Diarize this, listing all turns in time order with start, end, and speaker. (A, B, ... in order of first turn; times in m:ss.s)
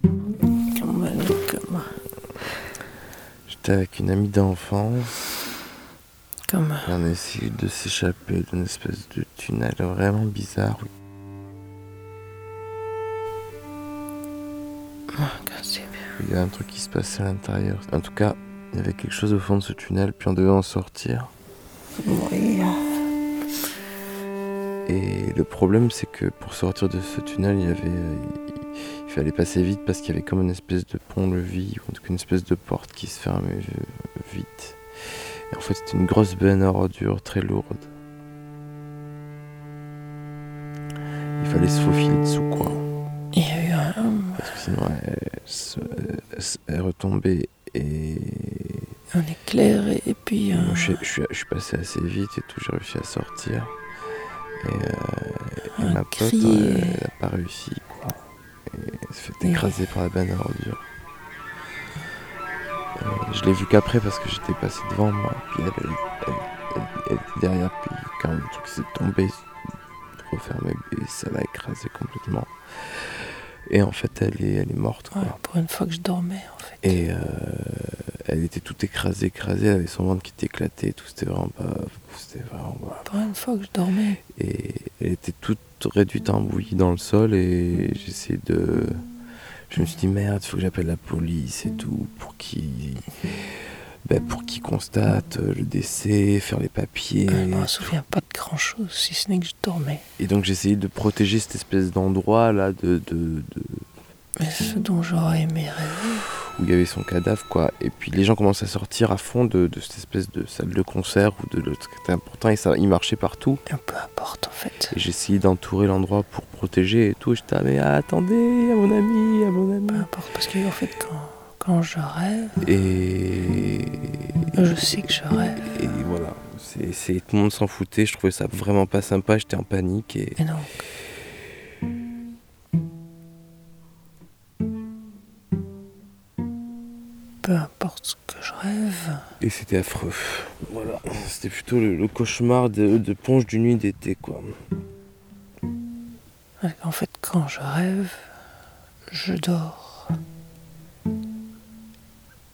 0:00.8-0:01.9 A
0:03.5-0:05.2 B
0:06.5-0:06.9 A
0:06.8-0:10.9 B
0:15.1-0:16.0 A
0:16.2-0:21.3 B
0:22.0-0:22.8 A
0:24.9-0:34.8 B
0:35.5-0:37.9 B
0:41.4-0:42.8 B
0:43.3-0:44.5 A
0:44.4-0:48.9 B
0:49.1-0:51.0 A
0:50.5-0:53.8 B
0:54.6-0:58.2 B
0:55.8-0:57.0 A
0:58.7-1:00.8 B
0:59.4-0:59.7 A
1:03.0-1:09.4 B
1:10.2-1:13.0 B
1:13.7-1:15.4 B
1:15.1-1:17.0 A
1:16.8-1:23.1 B
1:23.0-1:24.2 A
1:24.4-1:29.0 B
1:29.7-1:33.2 B
1:34.1-1:37.9 B
1:37.3-1:40.0 A
1:40.2-1:43.9 B
1:44.4-1:46.2 A
1:46.6-1:53.6 B
1:53.7-1:54.9 A
1:54.9-2:00.1 B
1:59.9-2:02.6 A
2:02.6-2:05.1 B
2:04.6-2:05.7 A
2:05.6-2:10.4 B
2:10.4-2:10.8 A
2:17.4-2:19.2 A
2:19.4-2:24.6 B
2:26.6-2:28.3 A
2:29.1-2:30.1 A